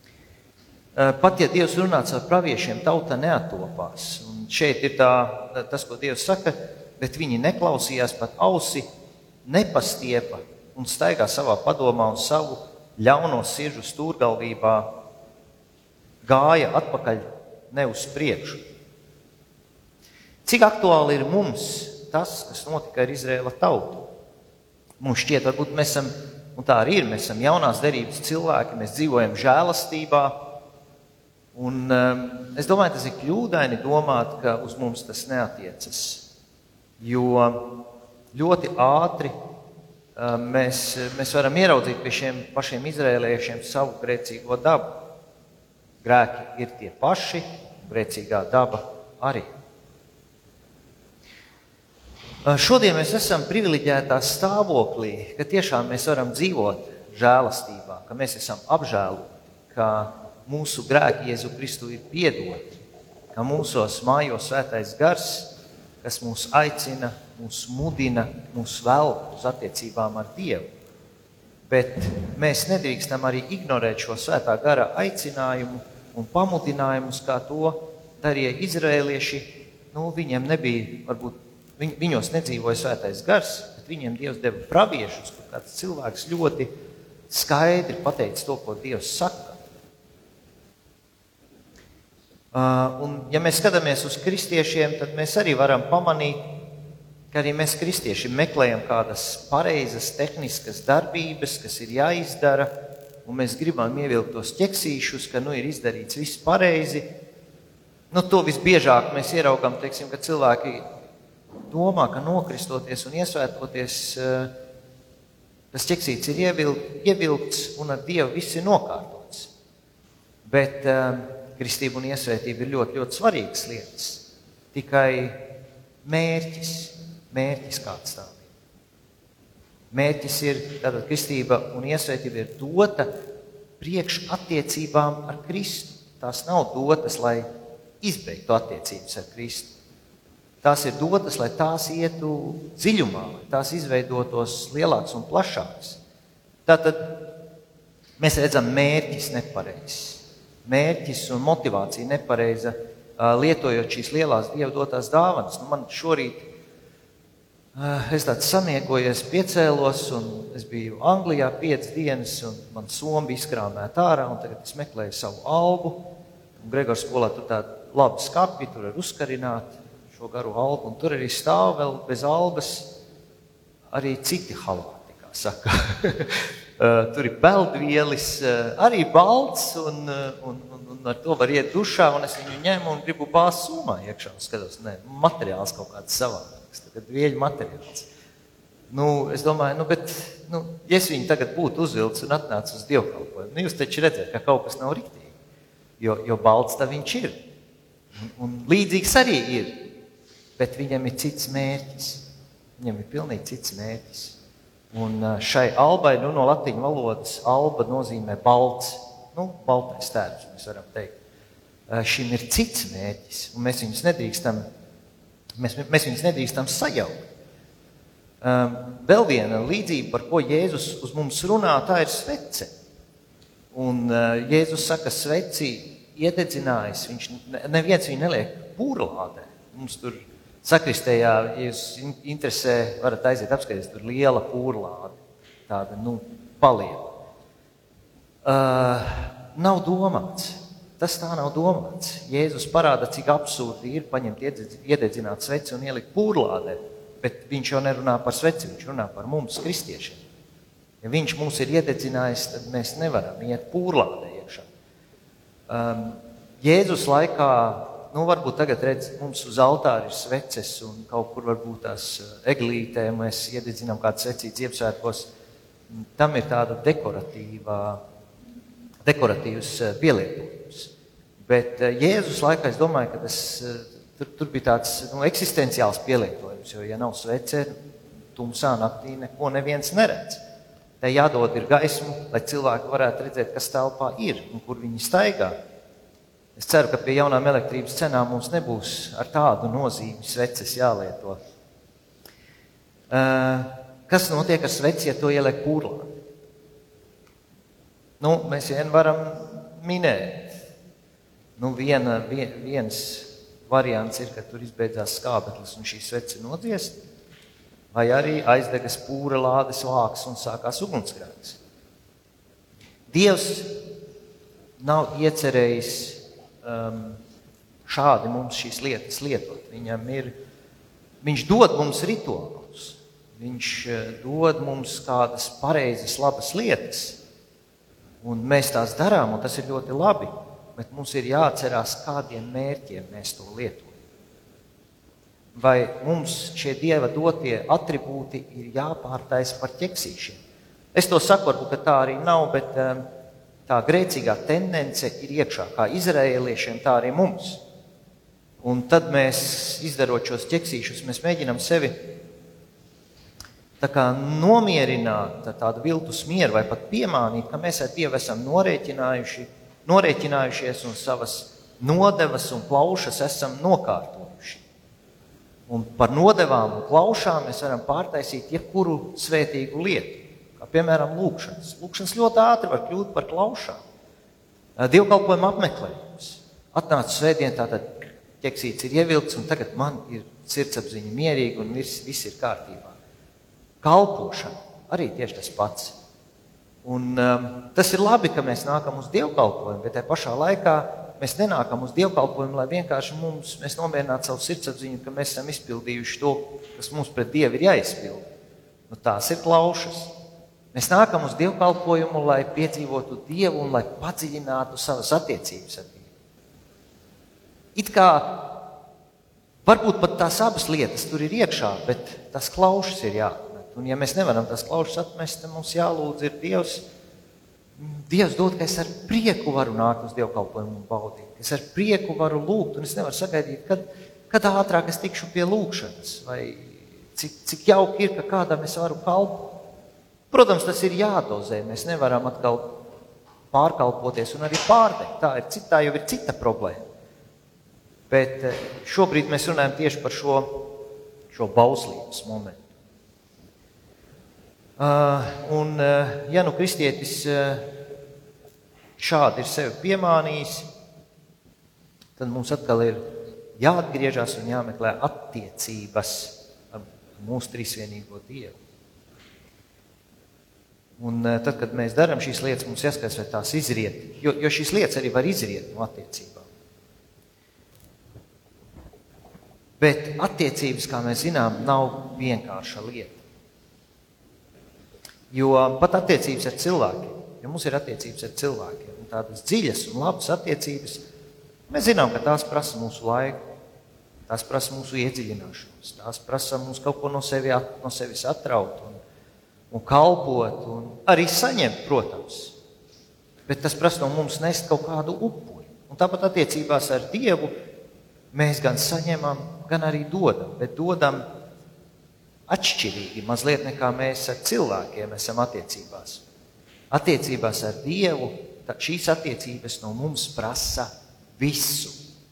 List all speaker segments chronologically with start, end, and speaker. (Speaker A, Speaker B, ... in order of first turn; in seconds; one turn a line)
Speaker A: 0.9-8.8
Speaker A: 9.4-14.9
Speaker A: 16.2-18.6
Speaker A: 20.5-24.1
Speaker A: 25.0-30.4
Speaker A: 31.6-36.2
Speaker A: 37.0-39.3
Speaker A: 40.2-45.0
Speaker A: 46.0-49.5
Speaker A: 52.5-62.6
Speaker A: 63.3-70.7
Speaker A: 71.7-86.7
Speaker A: 87.3-89.6
Speaker A: 92.5-96.5
Speaker A: 97.3-102.7
Speaker A: 103.2-107.1
Speaker A: 108.1-110.8
Speaker A: 111.7-114.5
Speaker A: 115.7-119.5
Speaker A: 120.5-125.4
Speaker A: 126.0-128.4
Speaker A: 129.9-133.2
Speaker A: 133.8-137.5
Speaker A: 138.0-139.7
Speaker A: 140.6-146.0
Speaker A: 146.7-147.3
Speaker A: 148.2-156.5
Speaker A: 157.8-172.9
Speaker A: 173.9-188.1
Speaker A: 188.9-195.3
Speaker A: 196.0-197.4
Speaker A: 198.2-199.9
Speaker A: 200.6-202.2
Speaker A: 202.8-204.4
Speaker A: 204.9-211.1
Speaker A: 211.9-214.7
Speaker A: 215.6-217.2
Speaker A: 218.4-222.7
Speaker A: 223.7-235.2
Speaker A: 235.7-237.2
Speaker A: 238.4-250.2
Speaker A: 251.0-254.7
Speaker A: 255.7-265.3
Speaker A: 266.2-268.0
Speaker A: 269.1-270.9
Speaker A: 271.5-277.7
Speaker A: 278.4-280.4
Speaker A: 281.0-285.6
Speaker A: 286.6-291.4
Speaker A: 293.1-296.1
Speaker A: 298.2-300.6
Speaker A: 301.6-307.0
Speaker A: 307.9-311.6
Speaker A: 313.1-313.8
Speaker A: 314.8-317.2
Speaker A: 317.9-320.3
Speaker A: 321.2-327.2
Speaker A: 328.2-333.9
Speaker A: 335.6-340.4
Speaker A: 340.9-343.1
Speaker A: 343.7-347.6
Speaker A: 348.6-352.1
Speaker A: 353.8-364.6
Speaker A: 365.7-373.8
Speaker A: 374.8-382.9
Speaker A: 383.8-385.9
Speaker A: 386.9-398.2
Speaker A: 398.9-400.1
Speaker A: 400.7-406.1
Speaker A: 407.8-408.6
Speaker A: 409.7-416.8
Speaker A: 417.8-429.6
Speaker A: 430.3-432.8
Speaker A: 433.5-436.9
Speaker A: 438.1-440.8
Speaker A: 441.3-442.6
Speaker A: 444.8-447.7
Speaker A: 449.0-450.7
Speaker A: 452.2-453.1
Speaker A: 453.6-458.6
Speaker A: 461.0-466.5
Speaker A: 469.8-473.2
Speaker A: 475.3-481.0
Speaker A: 481.7-483.4
Speaker A: 484.3-489.0
Speaker A: 489.7-492.6
Speaker A: 493.5-497.5
Speaker A: 498.3-501.2
Speaker A: 502.5-506.2
Speaker A: 506.9-512.0